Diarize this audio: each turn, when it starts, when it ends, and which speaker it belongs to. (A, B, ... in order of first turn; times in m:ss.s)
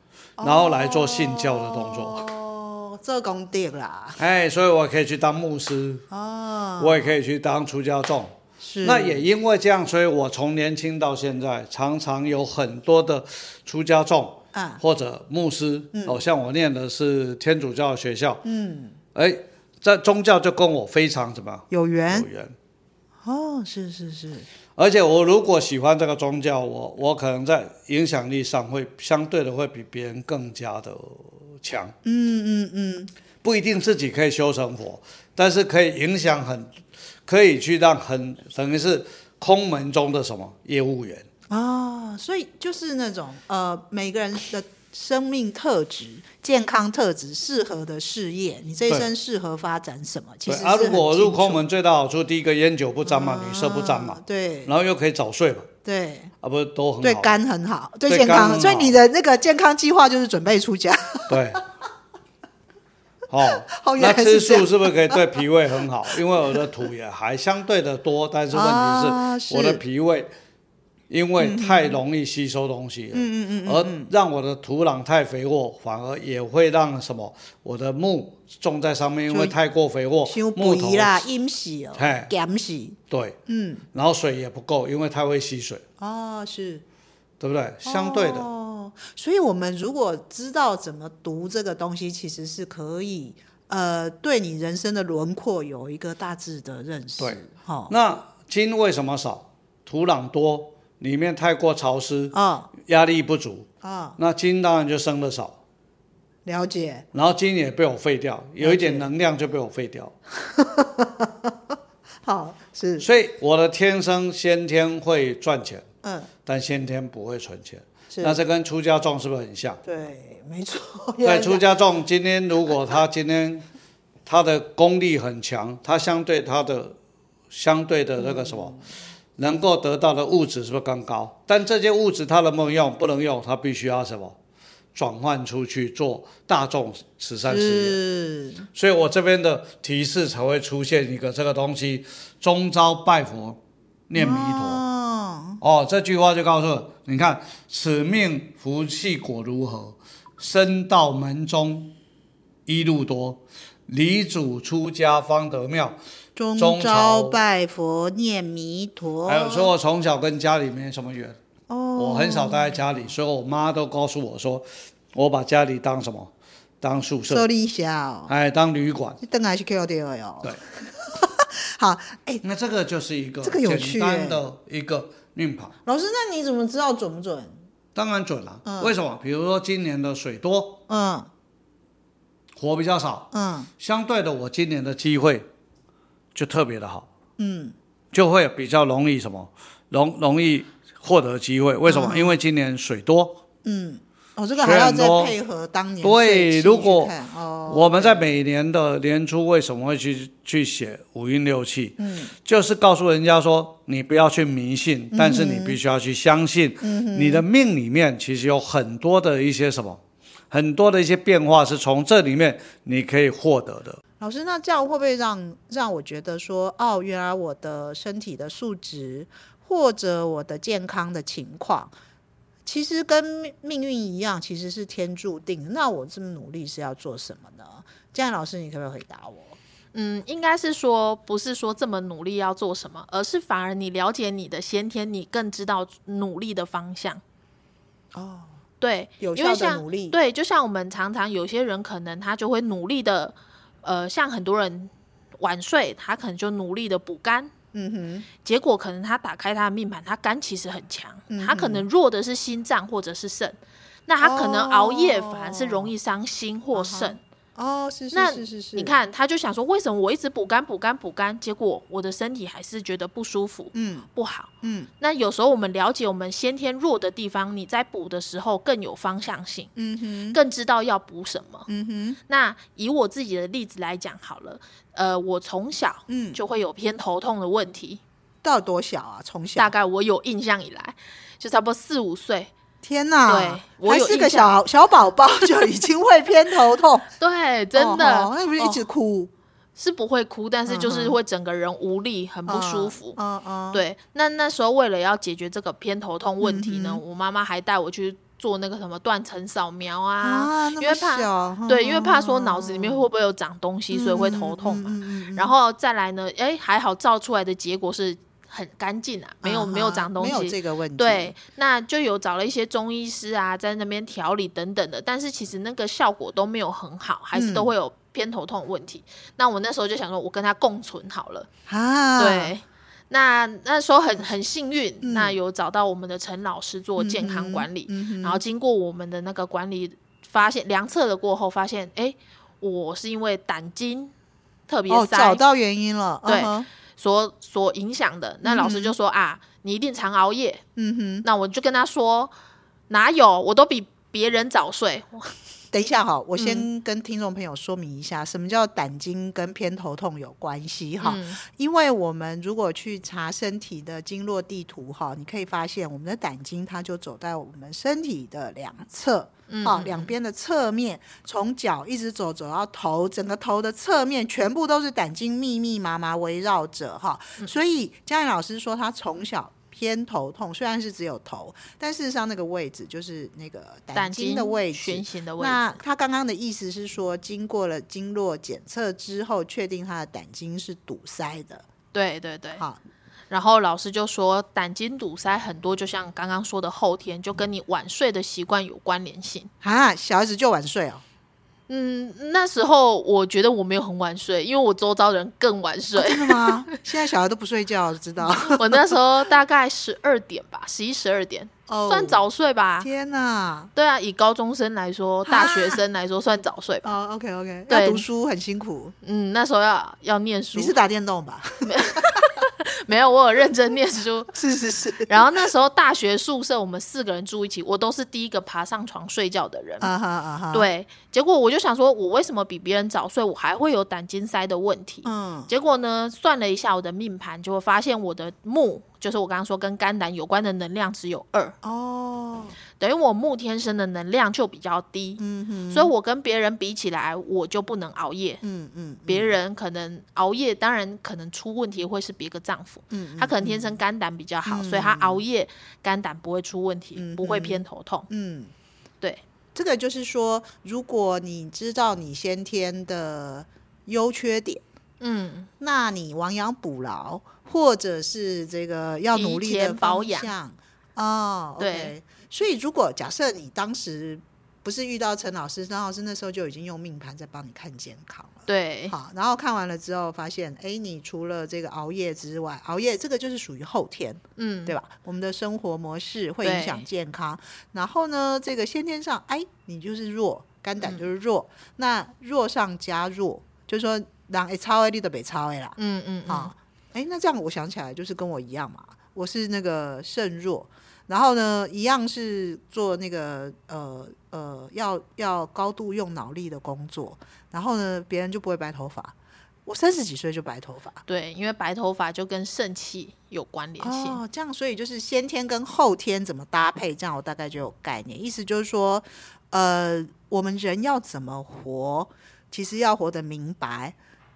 0:00.4-0:04.2 A
0:00.4-0:02.2 B
0:04.2-0:06.0 B
0:06.1-0:07.1 A
0:06.8-0:18.4 B
0:08.6-0:09.2 A
0:14.5-0:14.8 A
0:15.9-0:16.2 A
0:18.4-0:19.0 A
0:19.1-0:22.5 B
0:21.7-0:22.3 A
0:23.2-0:24.5 A
0:24.8-0:31.9 B
0:32.0-0:33.1 A
0:33.4-0:36.7 B
0:37.2-0:41.2 B
0:41.5-0:51.6 A
0:50.4-0:55.7 B
0:53.0-0:54.7 A
0:55.8-0:56.3 A
0:56.4-0:57.4 B
0:57.0-1:01.6 A
0:58.1-0:59.0 B
1:01.3-1:01.6 B
1:03.3-1:10.3 B
1:03.4-1:06.9 A
1:08.5-1:09.8 A
1:11.1-1:21.2 B
1:11.4-1:12.0 A
1:13.1-1:14.1 A
1:19.3-1:19.5 A
1:20.2-1:23.8 A
1:22.0-1:22.3 B
1:23.1-1:23.4 B
1:23.9-1:25.8 B
1:26.0-1:26.8 A
1:27.4-1:28.5 B
1:27.8-1:37.9 A
1:37.2-1:45.6 B
1:42.3-1:42.7 A
1:43.8-1:44.2 A
1:46.4-1:47.0 A
1:47.1-1:50.1 B
1:48.6-1:49.1 A
1:50.3-1:51.6 A
1:52.2-1:53.0 A
1:53.0-1:55.8 B
1:56.0-1:56.3 A
1:56.4-1:59.8 B
1:58.1-1:58.4 A
1:59.8-2:01.6 A
2:01.2-2:03.6 B
2:04.2-2:07.0 B
2:07.5-2:08.8 B
2:08.2-2:08.8 A
2:09.4-2:14.4 B
2:14.9-2:18.0 B
2:17.5-2:18.7 A
2:18.7-2:24.8 B
2:24.1-2:25.6 A
2:25.6-2:32.0 B
2:32.7-2:36.0 B
2:36.4-2:39.7 A
2:36.6-2:37.4 B
2:39.2-2:41.4 B
2:41.7-2:43.0 A
2:42.0-2:46.3 B
2:46.8-2:47.5 B
2:47.3-2:48.3 A
2:48.3-2:49.2 B
2:49.2-2:52.4 A
2:52.4-2:55.8 B
2:53.4-2:54.4 A
2:55.8-2:57.6 A
2:57.9-3:00.8 B
2:58.6-2:58.9 A
3:00.9-3:01.3 A
3:02.6-3:05.4 B
3:03.3-3:03.7 A
3:06.3-3:07.1 B
3:07.4-3:07.7 A
3:08.1-3:13.4 B
3:11.8-3:12.4 A
3:13.6-3:18.3 A
3:14.6-3:15.3 B
3:16.0-3:17.1 B
3:17.7-3:30.0 B
3:22.0-3:22.3 A
3:25.1-3:25.8 A
3:26.8-3:27.4 A
3:30.5-3:34.0 B
3:34.2-3:41.9 A
3:42.6-3:49.6 A
3:49.9-3:57.2 C
3:58.1-3:58.6 A
3:58.8-4:07.5 C
3:59.2-4:00.2 A
4:07.7-4:08.3 A
4:08.4-4:17.2 C
4:11.3-4:11.8 A
4:14.2-4:15.9 A
4:16.7-4:18.9 A
4:18.1-4:29.7 C
4:23.7-4:24.1 A
4:24.6-4:24.9 A
4:29.8-4:30.4 A
4:30.3-4:31.7 C
4:31.7-4:32.2 A
4:32.3-4:38.0 C
4:36.1-4:36.4 A
4:38.4-4:39.7 A
4:39.6-4:42.5 C
4:42.8-4:47.1 A
4:43.3-4:44.6 C
4:47.2-4:48.8 C
4:47.8-4:49.3 A
4:49.8-4:53.2 C
4:50.7-4:51.2 A
4:52.5-4:53.8 A
4:53.7-5:21.5 C
4:56.4-4:57.0 A
5:00.2-5:03.0 A
5:03.9-5:05.5 A
5:09.4-5:11.3 A
5:17.3-5:17.7 A
5:21.7-5:22.5 A
5:22.2-5:34.1 C
5:25.0-5:25.4 A
5:27.0-5:28.4 A
5:34.7-5:35.4 C
5:34.9-5:36.7 A
5:36.2-5:40.6 C
5:38.4-5:38.9 A
5:40.8-5:41.2 A
5:41.2-5:42.3 C
5:42.9-5:45.3 C
5:45.7-6:21.6 A
5:46.4-5:46.6 C
5:51.0-5:51.4 C
5:59.5-6:00.1 C
6:13.9-6:15.8 C
6:21.9-6:22.6 C
6:23.3-6:29.5 C
6:29.6-6:31.0 A
6:31.7-6:36.7 C
6:36.0-6:39.0 A
6:38.2-6:42.9 C
6:41.7-6:42.2 A
6:42.8-6:43.7 A
6:43.7-6:46.8 C
6:45.2-6:45.8 A
6:46.8-6:49.0 A
6:47.7-6:48.0 C
6:49.0-6:50.8 C
6:50.5-6:52.2 A
6:51.6-6:54.4 C
6:54.3-6:55.5 A
6:55.1-6:59.9 C
6:59.8-7:00.7 A
7:00.5-7:11.6 C
7:05.0-7:05.5 A
7:11.6-7:12.6 A
7:12.8-7:18.4 C
7:15.2-7:15.9 A
7:18.4-7:19.4 A
7:19.1-7:28.1 C
7:22.9-7:23.8 A
7:24.4-7:25.2 A
7:27.0-7:28.5 A
7:29.5-7:34.6 A
7:35.0-7:35.5 C
7:35.6-8:19.1 A
7:39.1-7:40.3 C
7:41.6-7:41.9 C
7:48.5-7:48.9 C
7:54.4-7:54.7 C
7:56.4-7:56.8 C
8:05.8-8:06.5 C
8:19.6-8:21.0 A
8:21.0-8:24.2 C
8:23.8-8:34.0 A